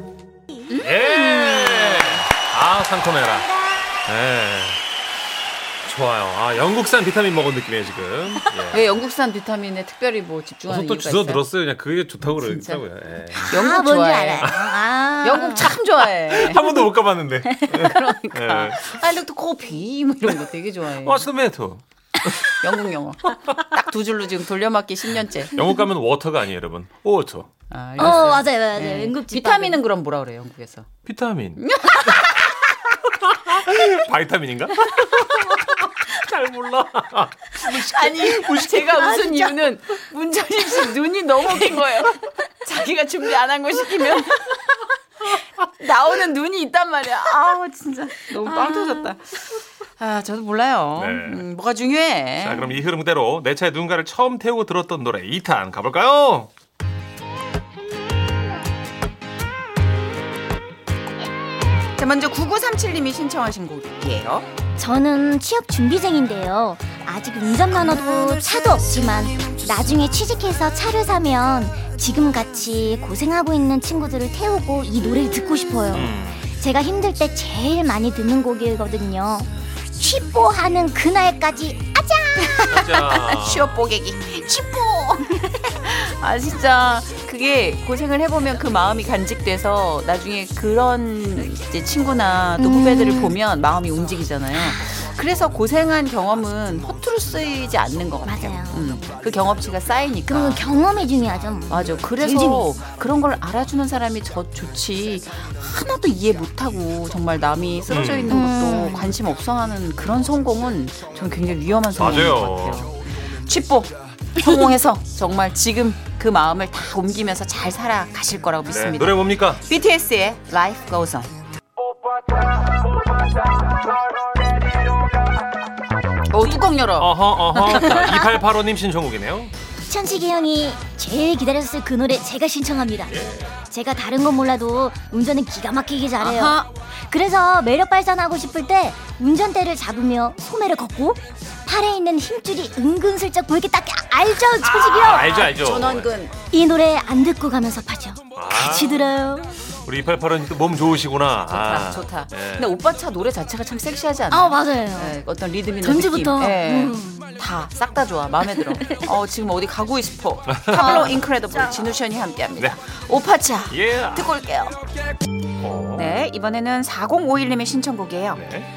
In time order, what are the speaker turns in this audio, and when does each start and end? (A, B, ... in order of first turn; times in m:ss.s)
0:00.7-0:04.8 A
0:01.4-0:01.7 B
0:03.4-0:03.8 B
0:05.8-0:09.0 A
0:08.7-0:11.5 C
0:10.7-0:13.5 A
0:12.3-0:12.8 C
0:13.4-0:15.8 B
0:13.4-0:14.6 C
0:14.4-0:14.8 A
0:15.2-0:16.7 C
0:16.2-0:18.9 A
0:16.6-0:16.9 B
0:17.5-0:18.0 B
0:17.7-0:21.3 C
0:20.3-0:22.5 A
0:22.6-0:25.6 C
0:25.5-0:28.4 A
0:27.7-0:30.9 C
0:28.0-0:29.8 B
0:31.0-0:31.6 A
0:31.6-0:32.5 C
0:33.1-0:39.2 A
0:35.0-0:35.7 B
0:37.7-0:44.8 C
0:38.8-0:39.6 B
0:45.6-0:52.7 C
0:48.5-0:49.0 B
0:51.0-0:51.5 A
0:52.4-0:56.5 A
1:02.0-1:04.5 C
1:04.8-1:22.9 B
1:15.9-1:16.5 A
1:22.5-1:40.6 C
1:22.7-1:23.8 A
1:32.6-1:33.4 B
1:38.2-1:39.0 B
1:40.3-1:42.7 B
1:41.7-2:01.3 C
1:47.9-1:48.3 A
1:48.3-1:49.2 B
1:52.0-1:52.9 A
1:58.7-1:59.6 A
2:06.3-2:08.1 C
2:07.0-2:09.5 A
2:07.8-2:08.2 B
2:09.9-2:25.5 B
2:13.1-2:13.5 A
2:16.2-2:16.7 C
2:24.6-2:26.4 C
2:24.8-2:26.1 A
2:26.5-2:29.7 B
2:28.3-2:29.1 A
2:29.8-2:32.8 A
2:31.5-2:44.8 C
2:34.3-2:35.2 B
2:35.8-2:37.4 B
2:38.7-2:39.0 B
2:40.5-2:41.2 A
2:40.7-2:41.8 B
2:43.7-2:44.3 A
2:45.6-2:46.3 A
2:46.0-2:48.4 C
2:48.3-2:48.7 A